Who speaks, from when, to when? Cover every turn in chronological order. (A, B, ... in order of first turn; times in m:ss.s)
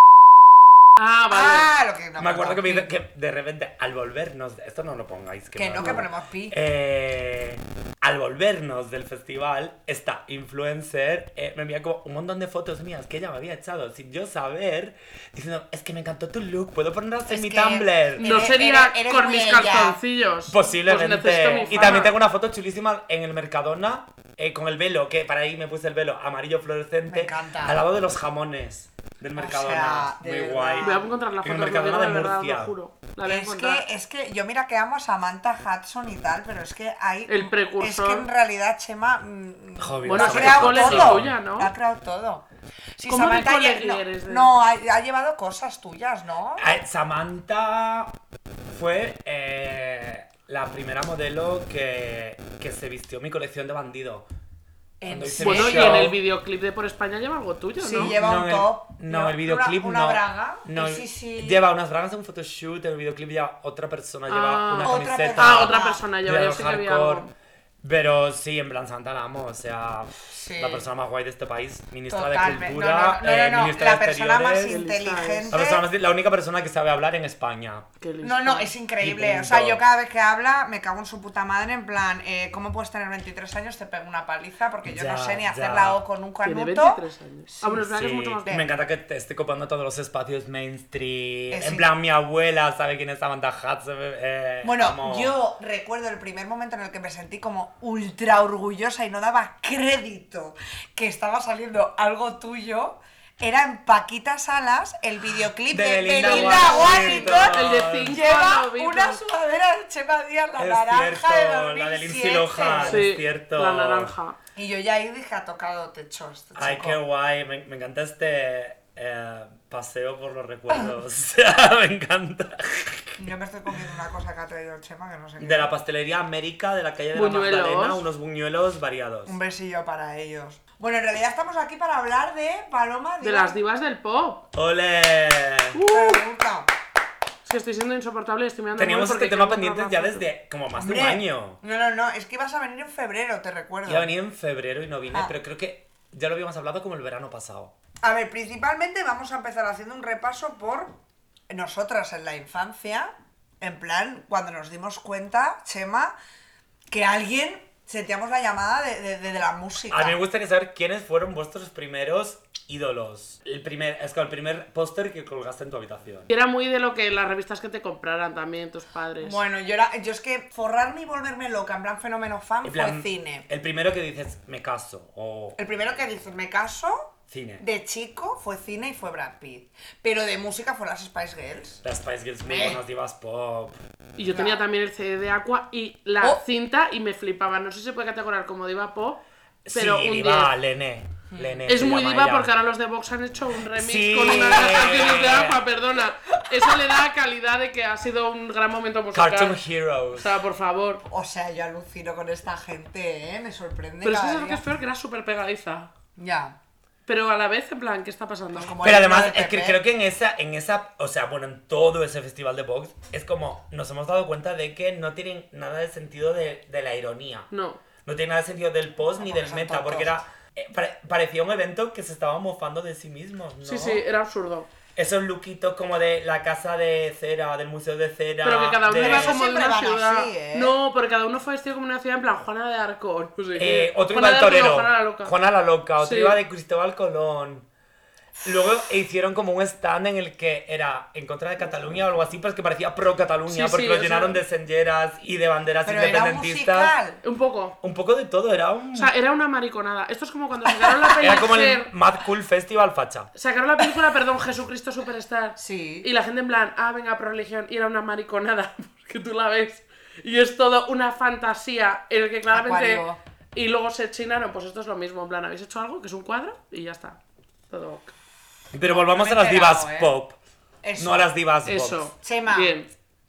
0:01.0-0:01.7 A
0:01.3-0:02.9 B
0:02.2-0:18.5 C
0:05.6-0:06.6 B
0:17.3-0:20.0 B
0:18.2-0:22.1 A
0:20.5-0:32.7 C
0:21.5-0:22.1 B
0:27.1-0:27.8 B
0:29.4-0:31.0 B
0:30.8-0:33.8 A
0:33.2-0:42.4 B
0:37.3-0:38.3 A
0:39.8-0:41.4 C
0:40.1-0:41.7 A
0:43.0-0:46.7 B
0:43.1-0:44.6 A
0:46.6-0:48.2 C
0:48.7-0:54.3 C
0:55.0-0:56.1 B
0:55.1-0:56.2 C
0:55.4-0:58.1 A
0:57.8-1:01.6 B
0:58.0-1:07.3 C
1:04.3-1:07.3 A
1:04.8-1:06.0 B
1:07.8-1:14.8 C
1:10.3-1:10.9 B
1:12.1-1:15.8 B
1:14.6-1:15.6 A
1:15.5-1:17.9 C
1:18.0-1:18.7 A
1:18.2-1:27.8 B
1:19.0-1:19.8 C
1:24.9-1:26.0 C
1:26.4-1:28.6 A
1:27.7-1:35.4 C
1:31.5-1:31.9 B
1:34.6-1:53.1 B
1:45.7-1:48.2 C
1:46.1-1:49.2 A
1:50.6-1:54.1 C
1:52.8-1:54.4 A
1:54.6-1:57.0 B
1:56.6-2:03.2 C
2:03.2-2:05.7 B
2:05.4-2:09.4 C
2:07.1-2:08.0 A
2:09.3-2:13.6 B
2:13.2-2:14.4 A
2:14.6-2:15.8 C
2:15.7-2:16.2 A
2:15.8-2:16.7 B
2:17.4-2:20.3 A
2:18.8-2:21.6 C
2:20.8-2:24.1 B
2:23.9-2:27.7 C
2:28.0-2:31.0 B
2:31.5-2:36.1 B
2:36.9-2:40.2 B
2:39.9-2:46.3 C
2:46.3-2:49.4 A
2:49.2-2:53.5 B
2:52.6-2:55.6 C
2:55.6-3:01.8 B
2:57.3-2:57.6 C
3:01.8-3:03.8 C
3:02.4-3:02.8 B
3:04.2-3:09.2 A
3:04.3-3:04.6 B
3:09.7-3:12.5 C
3:09.7-3:10.5 A
3:11.3-3:11.7 B
3:11.7-3:19.6 A
3:13.7-3:15.6 C
3:19.1-3:20.3 C
3:20.1-3:21.0 A
3:21.0-3:24.6 B
3:24.0-3:25.9 A
3:26.2-3:26.6 B
3:27.1-3:28.8 A
3:28.5-3:29.8 B
3:28.8-3:37.5 C
3:37.5-3:37.8 A
3:38.0-3:44.0 C
3:39.2-3:40.2 B
3:43.6-3:44.7 A
3:45.0-3:49.4 C
3:48.4-3:55.3 A
3:48.9-3:50.7 B
3:53.6-3:57.7 C
3:56.0-3:56.4 A
3:58.4-4:06.9 C
4:03.5-4:04.4 A
4:05.8-4:07.2 B
4:07.2-4:07.8 A
4:07.8-4:09.1 C
4:08.9-4:11.9 A
4:10.8-4:11.1 B
4:11.2-4:13.3 C
4:13.4-4:27.2 A
4:15.6-4:16.1 B
4:22.5-4:23.2 B
4:27.7-4:28.1 A
4:28.7-4:30.4 C
4:28.8-4:30.2 B
4:30.8-4:31.3 B
4:31.0-4:32.0 C
4:31.6-4:32.9 A
4:32.2-4:32.8 B